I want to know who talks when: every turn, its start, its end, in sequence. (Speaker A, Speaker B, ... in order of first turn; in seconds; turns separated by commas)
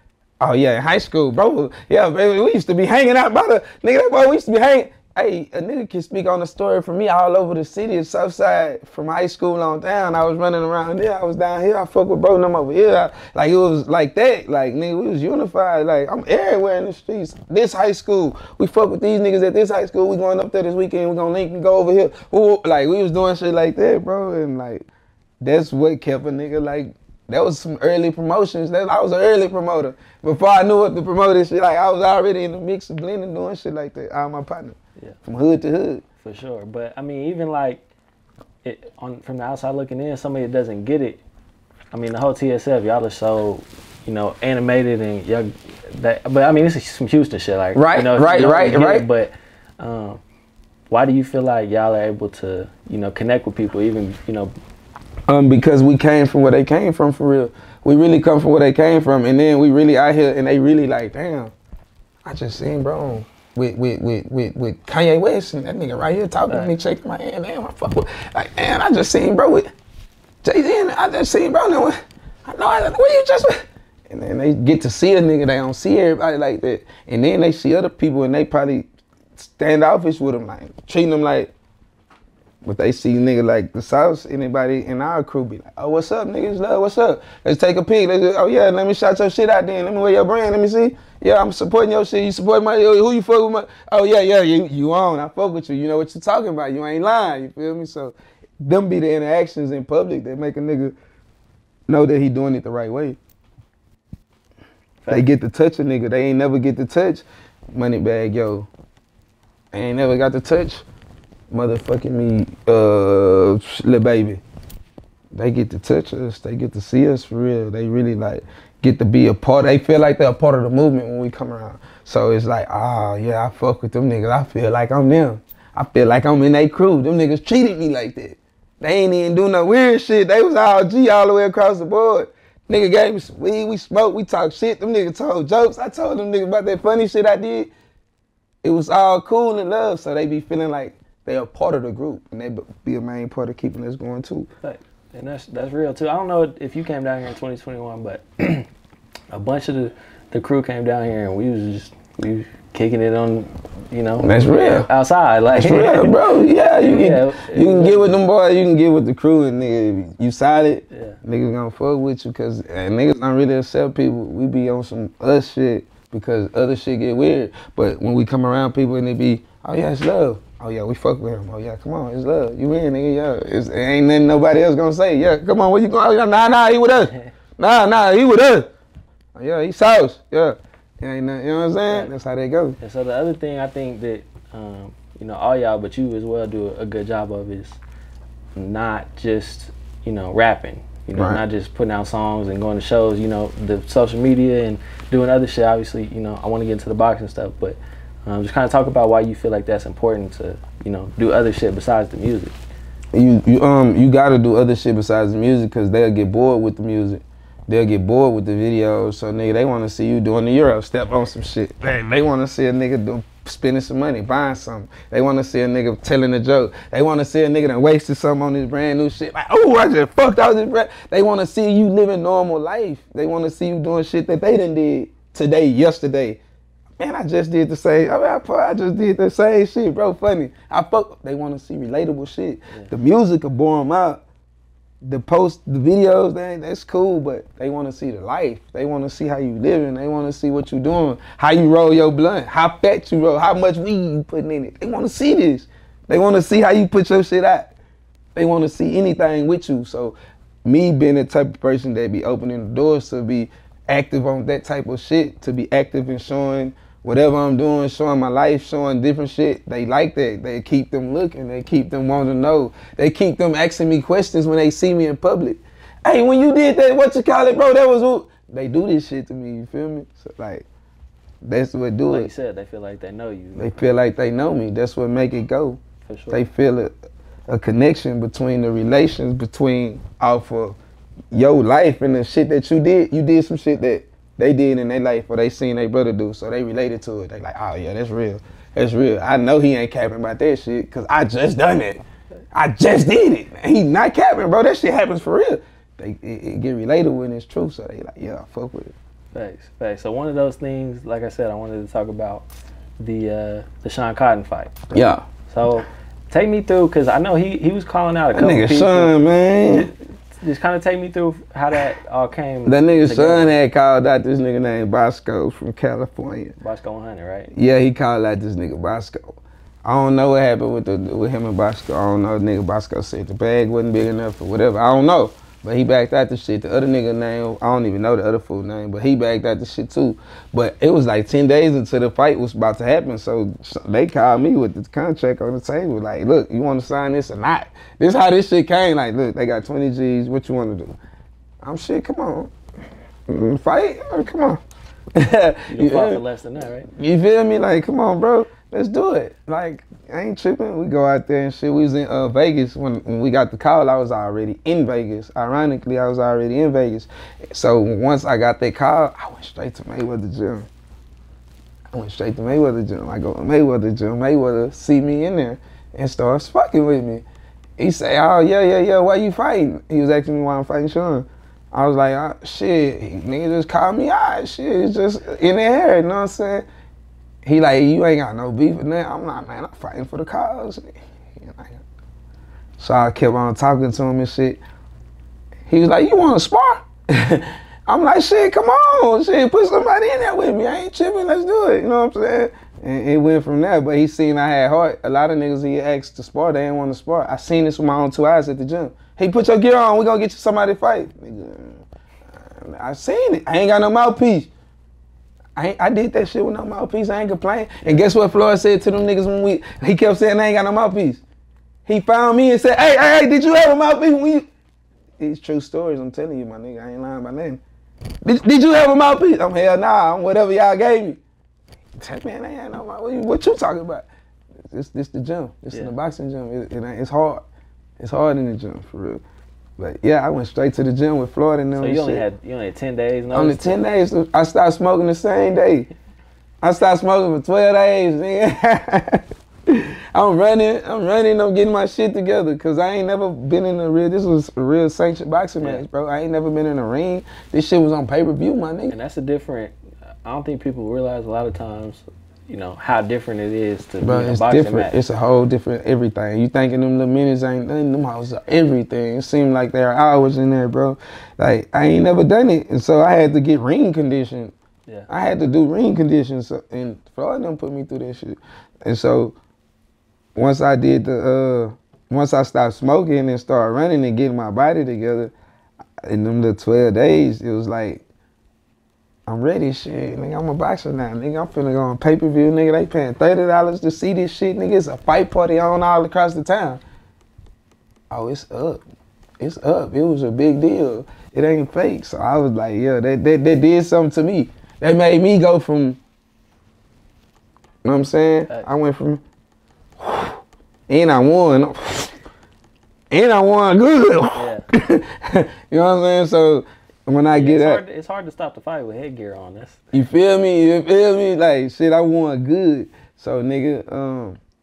Speaker A: 0.4-24.9, Speaker A: 25.4-36.0, Speaker B: 36.2-37.8, Speaker B: 38.6-41.2, Speaker B: 41.9-50.2, Speaker A: 47.8-49.1, Speaker B: 50.9-54.5, Speaker A: 55.3-61.5, Speaker A: 62.2-69.7, Speaker B: 66.5-66.8, Speaker A: 70.4-81.5, Speaker A: 82.6-101.0, Speaker A: 101.9-103.2, Speaker B: 105.0-105.3, Speaker A: 105.1-108.7, Speaker A: 109.7-110.8, Speaker A: 111.5-114.4, Speaker A: 115.3-137.7, Speaker A: 138.6-144.5, Speaker B: 144.6-148.7, Speaker B: 149.3-158.2, Speaker A: 154.2-154.9, Speaker A: 155.6-178.7, Speaker B: 160.9-161.2, Speaker B: 177.0-177.3, Speaker A: 179.3-182.8, Speaker B: 181.9-182.1, Speaker B: 182.8-187.8, Speaker B: 188.6-202.6, Speaker A: 191.2-191.4, Speaker A: 203.1-226.4, Speaker A: 227.0-234.2, Speaker A: 235.0-247.7, Speaker A: 248.3-270.6, Speaker A: 271.4-272.3, Speaker B: 272.1-273.7, Speaker A: 273.6-275.8, Speaker B: 276.1-276.4, Speaker A: 276.3-276.9, Speaker A: 277.5-280.8, Speaker A: 281.3-292.0, Speaker A: 292.5-298.9, Speaker B: 299.3-302.4, Speaker B: 303.0-304.8, Speaker A: 304.9-305.2, Speaker B: 305.5-309.1, Speaker A: 308.3-309.9, Speaker B: 309.7-313.5, Speaker A: 312.6-316.5, Speaker B: 316.6-317.5, Speaker A: 317.5-340.9, Speaker A: 341.6-342.5, Speaker A: 343.3-344.6, Speaker A: 345.1-346.2, Speaker B: 345.7-346.9, Speaker A: 346.9-360.7, Speaker A: 361.9-367.2, Speaker A: 367.8-376.6, Speaker A: 377.4-381.8, Speaker A: 382.8-384.6, Speaker A: 385.7-401.9, Speaker A: 402.4-404.5, Speaker A: 405.6-411.2, Speaker A: 411.9-414.4, Speaker A: 415.2-417.6, Speaker A: 418.2-421.2, Speaker A: 422.0-424.1, Speaker A: 424.7-427.4, Speaker A: 428.0-429.2, Speaker A: 429.8-432.2, Speaker B: 431.8-433.8, Speaker A: 433.3-435.9, Speaker A: 436.6-448.9, Speaker B: 448.9-454.9, Speaker A: 454.0-464.5, Speaker A: 465.1-469.4, Speaker A: 470.4-475.3, Speaker A: 476.0-478.0, Speaker A: 479.3-486.8, Speaker A: 488.1-488.8, Speaker A: 489.4-496.0, Speaker A: 497.9-499.2, Speaker A: 500.0-502.1, Speaker A: 503.1-507.8, Speaker B: 504.4-504.6, Speaker B: 507.3-509.9, Speaker A: 509.9-514.4